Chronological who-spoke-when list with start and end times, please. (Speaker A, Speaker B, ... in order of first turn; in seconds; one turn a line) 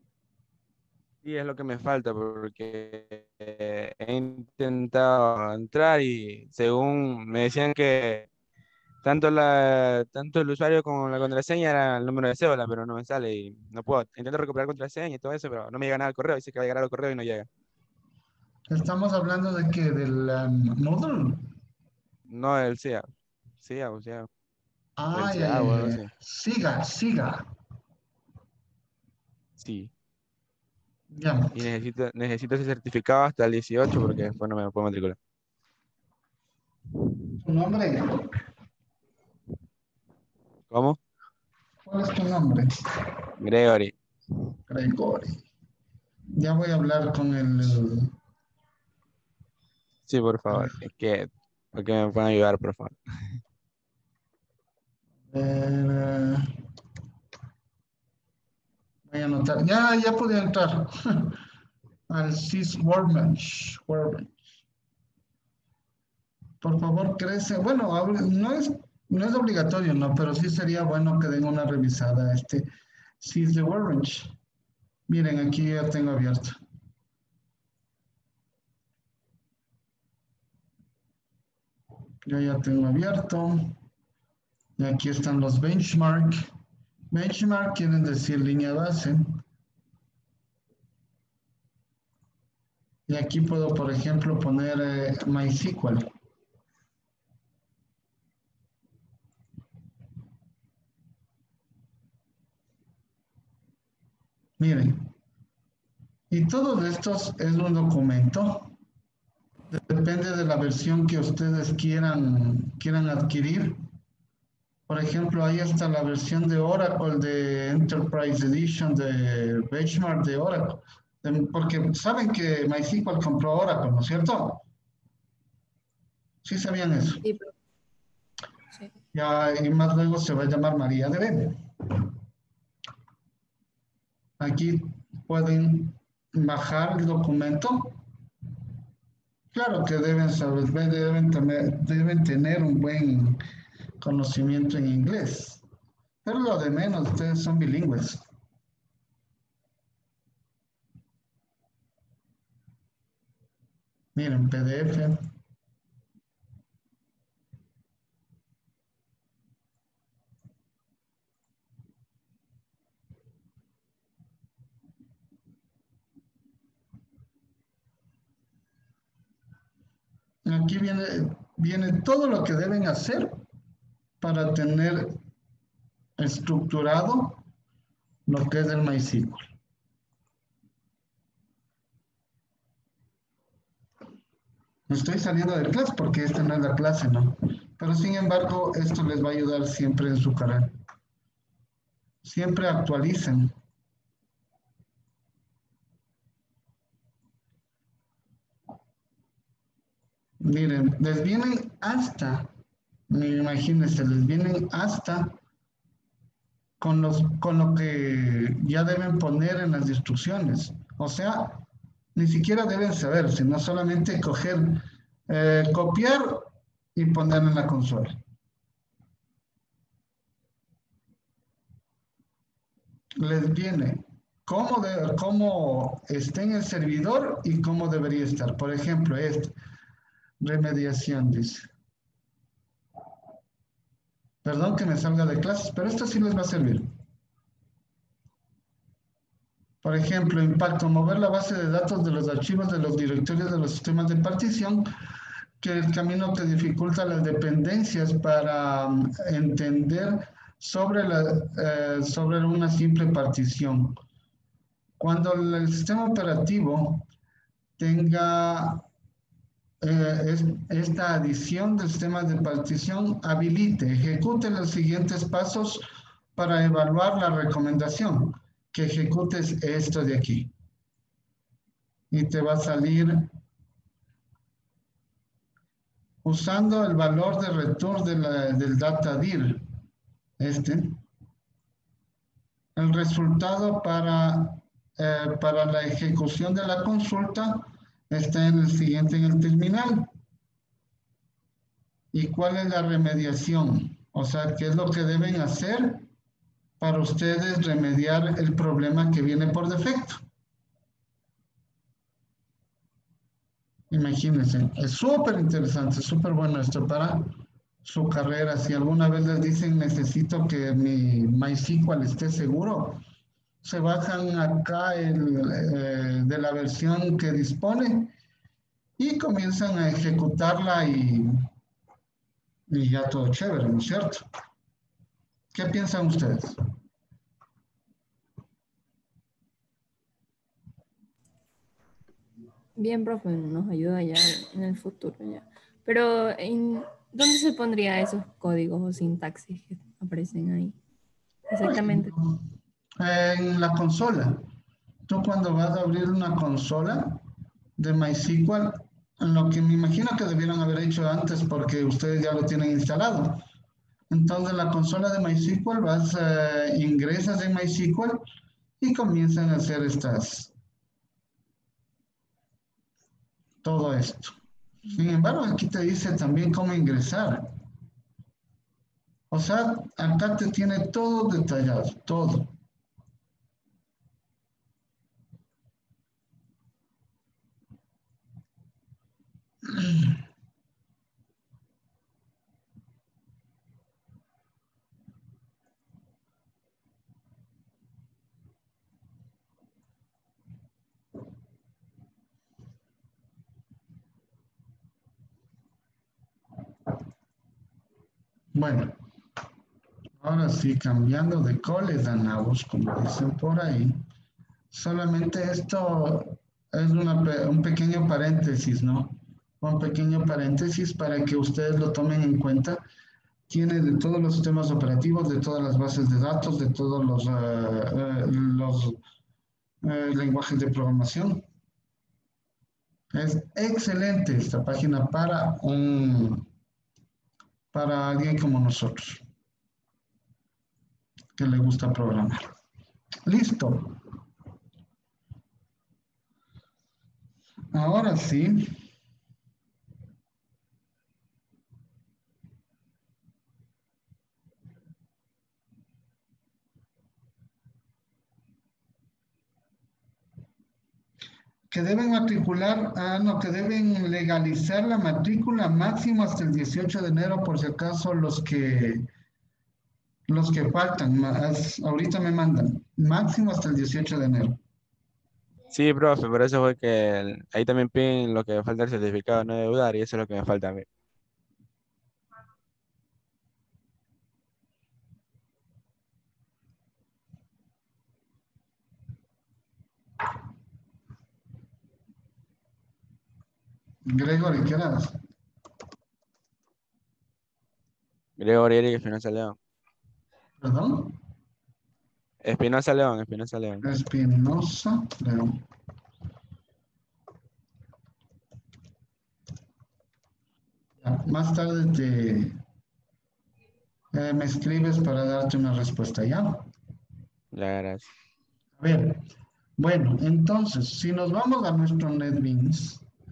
Speaker A: 1.2-8.3
Speaker A: 9.0-17.5
Speaker B: 18.7-21.4
Speaker A: 22.3-23.1
Speaker A: 23.6-24.3
Speaker B: 25.0-27.4
Speaker A: 25.1-26.1
Speaker A: 29.6-29.9
Speaker B: 31.1-31.6
Speaker A: 31.5-35.2
Speaker B: 37.4-38.2
Speaker A: 40.7-41.0
Speaker B: 41.9-42.7
Speaker A: 43.4-43.9
Speaker B: 44.7-45.4
Speaker B: 46.3-48.1
Speaker A: 50.1-53.4
Speaker B: 55.3-56.5
Speaker B: 59.1-61.4
Speaker B: 62.1-64.4
Speaker B: 66.6-72.7
Speaker B: 73.2-74.3
Speaker B: 75.1-76.6
Speaker B: 82.2-83.7
Speaker B: 84.8-86.5
Speaker B: 87.1-89.4
Speaker B: 93.1-96.1
Speaker B: 104.6-105.1
Speaker B: 106.3-108.7
Speaker B: 109.7-113.8
Speaker B: 114.9-124.6
Speaker B: 126.4-127.2
Speaker C: 127.2-127.5
Speaker B: 129.1-131.6
Speaker B: 134.4-138.0
Speaker B: 139.5-143.4
Speaker B: 144.0-145.6
Speaker B: 146.2-148.2
Speaker B: 154.1-155.2
Speaker B: 170.4-173.4
Speaker B: 174.2-175.2
Speaker B: 176.2-177.4
Speaker B: 178.3-179.5
Speaker B: 184.9-190.7
Speaker B: 192.2-193.5
Speaker B: 200.4-202.5
Speaker B: 203.1-205.4
Speaker B: 206.8-218.2
Speaker B: 223.2-229.5
Speaker B: 230.4-231.7
Speaker B: 234.4-236.9
Speaker B: 239.8-244.9
Speaker B: 245.6-254.0
Speaker B: 255.0-257.1
Speaker B: 257.8-258.9
Speaker B: 259.8-270.5
Speaker B: 272.1-273.3
Speaker B: 276.2-279.6
Speaker B: 280.4-281.0
Speaker B: 282.8-290.1
Speaker B: 292.1-296.1
Speaker B: 296.8-300.2
Speaker B: 303.9-313.0
Speaker B: 313.6-318.1
Speaker B: 319.0-321.4
Speaker B: 322.7-324.2
Speaker B: 325.5-326.6
Speaker C: 332.8-340.8
Speaker C: 341.5-342.1
Speaker B: 341.6-342.5
Speaker B: 343.0-344.4
Speaker B: 345.1-347.2
Speaker B: 347.8-353.4
Speaker B: 354.1-358.2
Speaker B: 358.8-360.5
Speaker B: 363.6-367.5
Speaker B: 369.3-372.5
Speaker B: 398.5-399.0
Speaker B: 400.2-404.0
Speaker B: 404.7-412.8
Speaker B: 413.5-419.0
Speaker B: 419.8-421.4
Speaker B: 423.1-426.4
Speaker B: 427.7-429.2
Speaker B: 431.4-432.5
Speaker B: 433.2-434.0
Speaker B: 437.7-438.8
Speaker B: 451.7-459.1
Speaker B: 460.3-464.6
Speaker A: 465.7-470.9
Speaker B: 484.1-485.2
Speaker A: 488.4-489.6
Speaker B: 490.6-491.2
Speaker A: 492.4-493.8
Speaker B: 493.8-495.6
Speaker B: 501.0-502.6
Speaker B: 504.1-506.7
Speaker A: 507.5-508.1
Speaker B: 508.8-509.3
Speaker B: 509.8-513.0